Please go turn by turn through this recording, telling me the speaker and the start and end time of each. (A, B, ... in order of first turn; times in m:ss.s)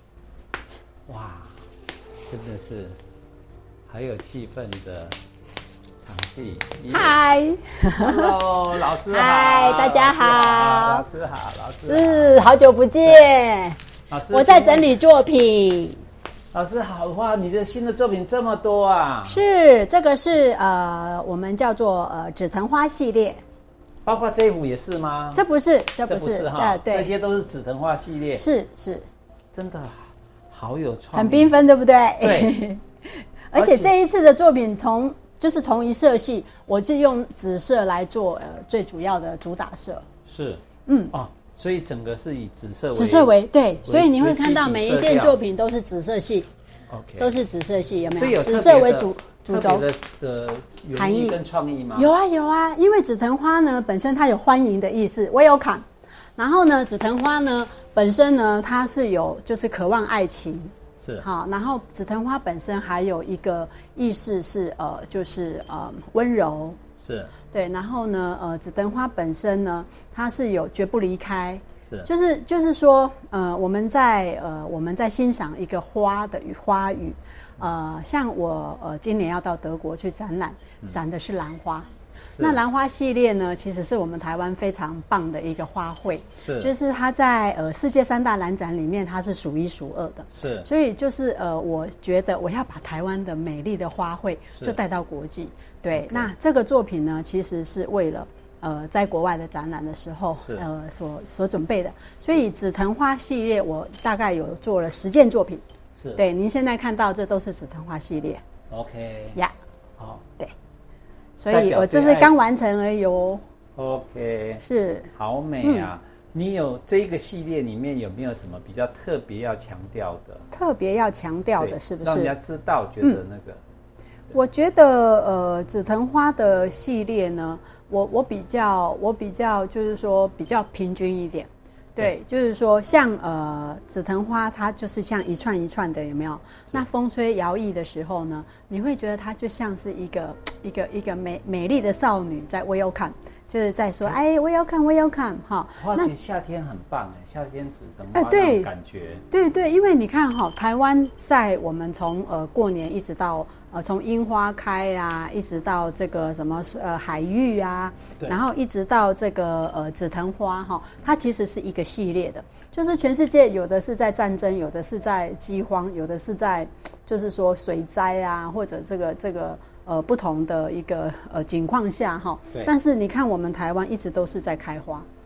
0:01.1-0:01.6 A
0:02.3-0:03.0 A
0:03.9-0:05.2 A
0:06.0-0:07.2 A
0:06.9-0:08.4 B
0:08.0-0:13.3 A
0:09.1-0:11.0 B
0:11.9-0:13.8 B
0:14.1-0:14.9 A
0:14.3-0:16.0 B
0:16.5-0:19.4 A
0:19.2-0:23.4 B
0:24.0-0:25.4 A
0:25.3-0:27.1 B
0:26.1-0:28.4 A
0:28.4-0:29.1 B
0:29.5-0:31.6 A
0:31.1-0:40.0 B
0:32.2-0:32.6 A
0:33.6-0:33.9 A
0:40.3-0:43.3 A
0:40.9-0:41.1 B
0:42.9-0:46.5 B
0:43.8-0:45.4 A
0:46.9-0:47.4 A
0:47.2-0:49.9 B
0:48.2-0:52.1 A
0:51.0-0:51.4 B
0:52.0-0:55.8 B
0:56.4-1:06.8 B
1:01.0-1:01.2 A
1:07.0-1:07.3 A
1:07.5-1:21.9 B
1:22.3-1:22.6 A
1:22.4-1:45.6 B
1:26.4-1:26.7 A
1:30.3-1:30.7 A
1:35.9-1:36.3 A
1:46.0-1:46.2 A
1:46.2-1:48.4 B
1:48.7-1:49.4 A
1:50.0-1:50.2 A
1:51.4-1:53.4 B
1:51.5-1:52.3 A
1:53.8-2:00.5 A
1:54.6-1:55.1 B
1:55.6-1:55.9 B
2:00.5-2:02.4 B
2:01.6-2:03.6 A
2:04.3-2:26.1 B
2:25.8-2:29.2 A
2:28.1-2:28.7 B
2:29.3-2:55.1 B